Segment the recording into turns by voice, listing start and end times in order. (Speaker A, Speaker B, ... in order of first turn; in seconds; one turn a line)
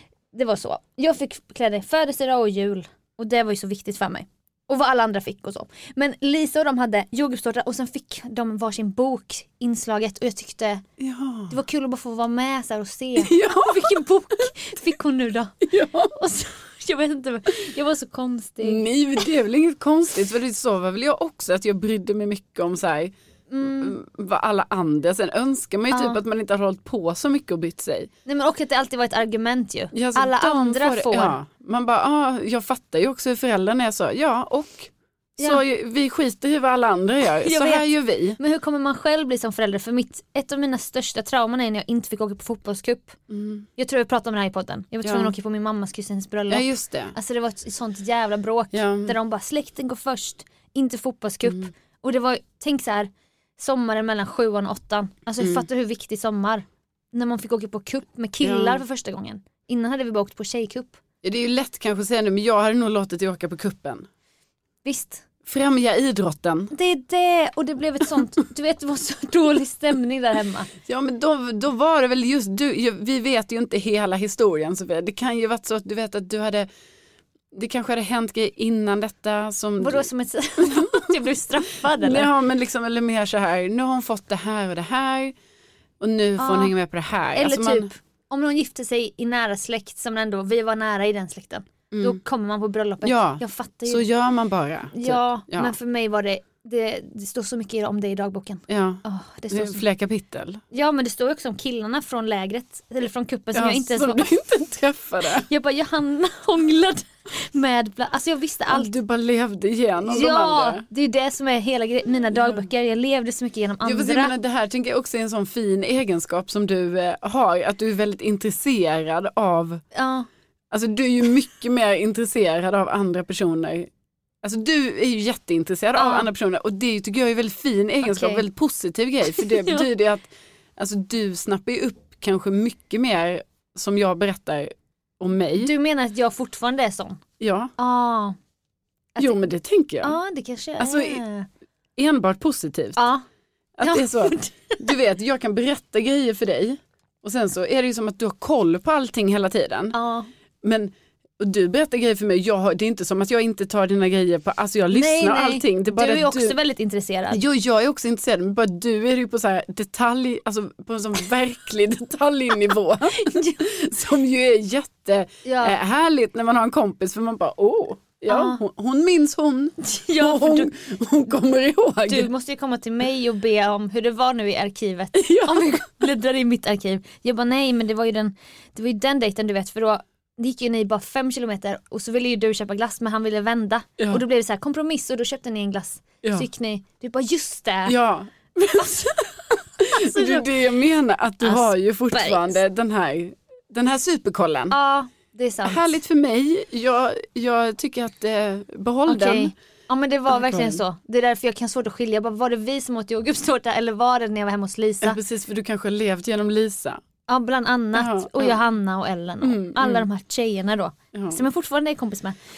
Speaker A: 0.3-10.8
Speaker B: 11.0-11.5
Speaker A: 11.5-18.9
Speaker B: 13.2-14.1
Speaker B: 15.6-16.1
Speaker B: 18.6-28.1
Speaker A: 23.5-24.0
Speaker A: 25.9-26.2
Speaker A: 28.2-31.4
Speaker B: 29.9-38.4
Speaker A: 37.4-43.2
Speaker B: 43.3-43.7
Speaker A: 43.8-61.0
Speaker B: 45.0-45.3
Speaker B: 46.5-47.1
Speaker B: 48.7-49.1
Speaker B: 55.4-55.6
Speaker B: 58.4-58.8
Speaker B: 61.2-64.1
Speaker A: 64.8-65.2
Speaker B: 65.4-66.7
Speaker A: 66.7-70.7
Speaker B: 70.8-76.7
Speaker B: 77.5-80.1
Speaker A: 79.8-82.3
Speaker B: 80.6-81.2
Speaker B: 81.8-85.3
Speaker B: 86.0-87.9
Speaker A: 86.4-86.7
Speaker A: 87.3-94.0
Speaker B: 91.9-92.2
Speaker B: 93.0-95.7
Speaker A: 94.9-99.8
Speaker B: 98.7-100.6
Speaker A: 100.7-104.3
Speaker B: 103.5-105.5
Speaker A: 105.3-108.9
Speaker B: 108.7-110.8
Speaker A: 110.0-114.3
Speaker B: 112.3-112.7
Speaker B: 113.8-119.8
Speaker A: 119.9-120.3
Speaker B: 120.7-123.9
Speaker B: 124.4-135.7
Speaker A: 126.0-126.3
Speaker A: 128.0-128.4
Speaker A: 129.3-129.9
Speaker A: 135.6-137.2
Speaker B: 137.4-137.7
Speaker A: 137.8-138.3
Speaker B: 139.2-140.2
Speaker A: 140.0-141.5
Speaker B: 140.8-141.2
Speaker B: 141.9-143.0
Speaker A: 142.9-143.2
Speaker B: 143.8-149.9
Speaker A: 143.8-144.9
Speaker A: 149.9-150.3
Speaker B: 150.6-156.6
Speaker A: 154.9-157.4
Speaker B: 157.3-172.3
Speaker A: 163.1-163.6
Speaker A: 165.4-165.8
Speaker A: 168.3-168.6
Speaker A: 169.8-170.7
Speaker A: 172.1-187.9
Speaker B: 175.1-175.8
Speaker B: 187.8-194.7
Speaker A: 188.8-189.2
Speaker A: 189.8-190.5
Speaker A: 191.4-192.6
Speaker A: 194.7-196.0
Speaker B: 195.6-199.5
Speaker A: 199.1-205.2
Speaker B: 200.3-200.8
Speaker B: 205.0-207.0
Speaker A: 207.3-212.4
Speaker B: 207.9-208.6
Speaker B: 209.4-210.1
Speaker B: 211.1-211.4